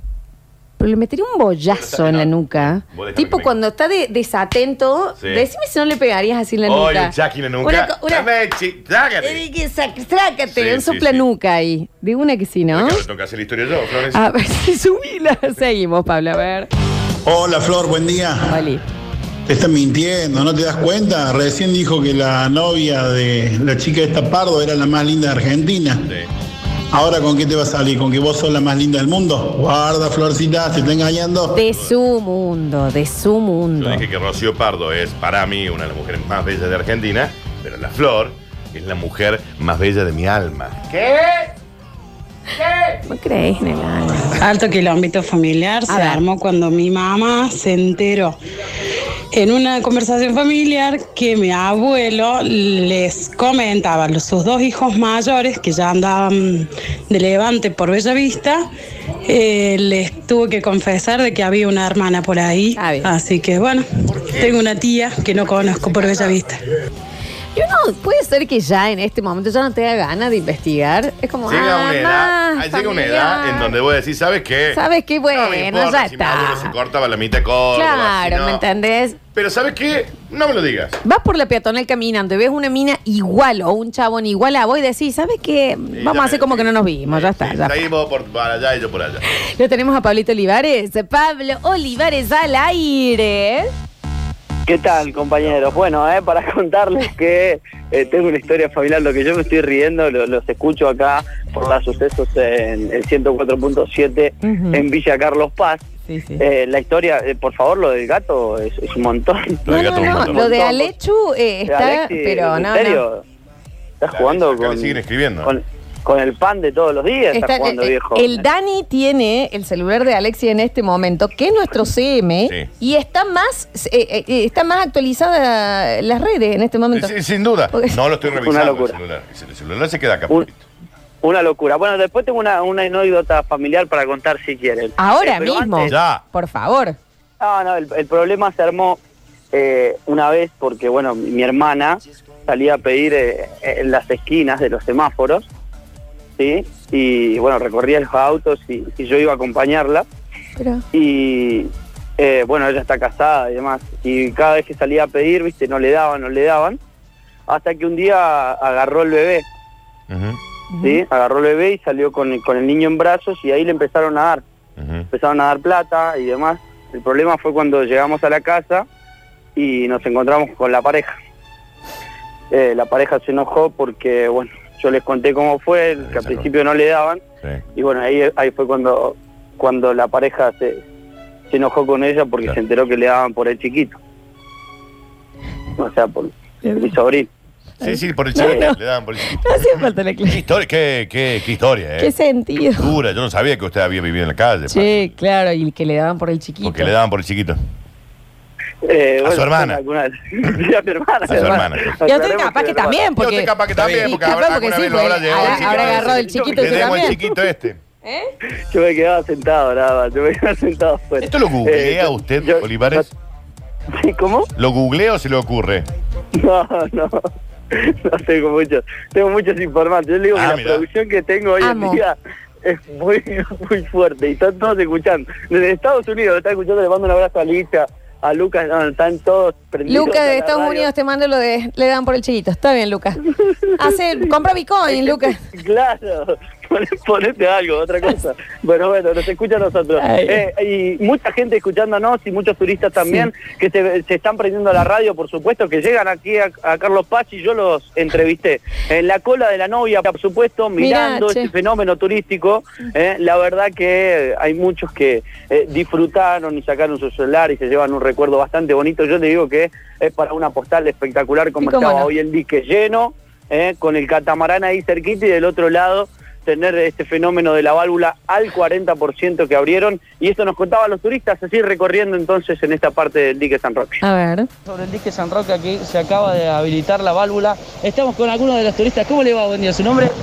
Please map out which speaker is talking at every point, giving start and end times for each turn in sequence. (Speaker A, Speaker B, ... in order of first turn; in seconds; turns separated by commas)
Speaker A: 0.8-8.3, Speaker B: 1.7-3.5, Speaker B: 5.2-5.5, Speaker B: 6.7-9.4, Speaker A: 9.2-13.0, Speaker B: 10.5-11.3, Speaker B: 12.7-14.2, Speaker A: 14.1-16.7, Speaker C: 17.3-18.6, Speaker A: 18.5-18.8, Speaker C: 19.5-26.1, Speaker C: 26.9-31.6, Speaker A: 31.5-34.0, Speaker B: 33.8-41.5, Speaker B: 42.5-43.0, Speaker A: 43.1-44.4, Speaker D: 44.4-48.4, Speaker A: 45.9-46.2, Speaker D: 49.3-58.7, Speaker D: 59.3-66.6, Speaker A: 62.8-63.1, Speaker B: 64.1-64.7, Speaker B: 65.6-66.2, Speaker A: 67.5-73.8, Speaker B: 71.5-74.8, Speaker A: 74.7-76.7, Speaker B: 75.3-78.6, Speaker A: 77.7-79.2, Speaker B: 79.3-81.0, Speaker A: 81.0-87.8, Speaker B: 85.9-89.2, Speaker A: 89.3-93.7, Speaker E: 94.7-105.8, Speaker A: 104.4-104.8, Speaker A: 106.1-106.4, Speaker E: 106.4-110.9, Speaker B: 109.7-110.4, Speaker A: 109.7-113.0, Speaker E: 111.7-113.2, Speaker E: 114.0-118.4, Speaker B: 114.1-115.5, Speaker A: 117.3-127.1, Speaker B: 126.9-130.6, Speaker E: 128.4-129.0, Speaker E: 131.2-135.9, Speaker A: 135.0-137.0, Speaker B: 135.8-136.2, Speaker E: 137.4-139.0, Speaker E: 139.5-145.5, Speaker E: 146.4-150.1, Speaker A: 150.6-150.8, Speaker E: 150.9-156.8, Speaker E: 157.5-159.4, Speaker B: 160.1-160.4, Speaker A: 160.7-161.0, Speaker E: 160.8-164.4, Speaker B: 164.8-165.1, Speaker E: 165.1-168.8, Speaker E: 169.6-171.1, Speaker E: 172.5-177.2, Speaker B: 176.0-176.5, Speaker E: 177.8-180.8, Speaker E: 181.5-184.0, Speaker E: 185.8-187.3, Speaker A: 186.7-186.9, Speaker B: 187.8-192.1, Speaker A: 187.8-188.8, Speaker A: 189.4-190.4, Speaker A: 192.0-192.9, Speaker B: 192.7-195.1, Speaker A: 194.7-196.9, Speaker B: 196.6-197.6, Speaker E: 198.9-203.0, Speaker B: 199.2-199.8, Speaker B: 201.3-201.9, Speaker A: 201.3-207.1, Speaker B: 203.2-207.8, Speaker E: 205.3-207.2, Speaker A: 208.1-208.3, Speaker E: 208.7-213.1, Speaker B: 211.2-213.1, Speaker E: 214.0-214.5, Speaker B: 214.6-215.9, Speaker E: 216.4-217.2, Speaker E: 217.7-230.9, Speaker B: 220.3-220.8, Speaker A: 221.6-222.0, Speaker A: 229.9-233.2, Speaker A: 233.8-235.4, Speaker E: 234.9-274.0, Speaker A: 240.0-240.4, Speaker A: 250.8-251.5, Speaker A: 261.6-262.1, Speaker A: 274.0-274.5, Speaker F: 274.7-280.1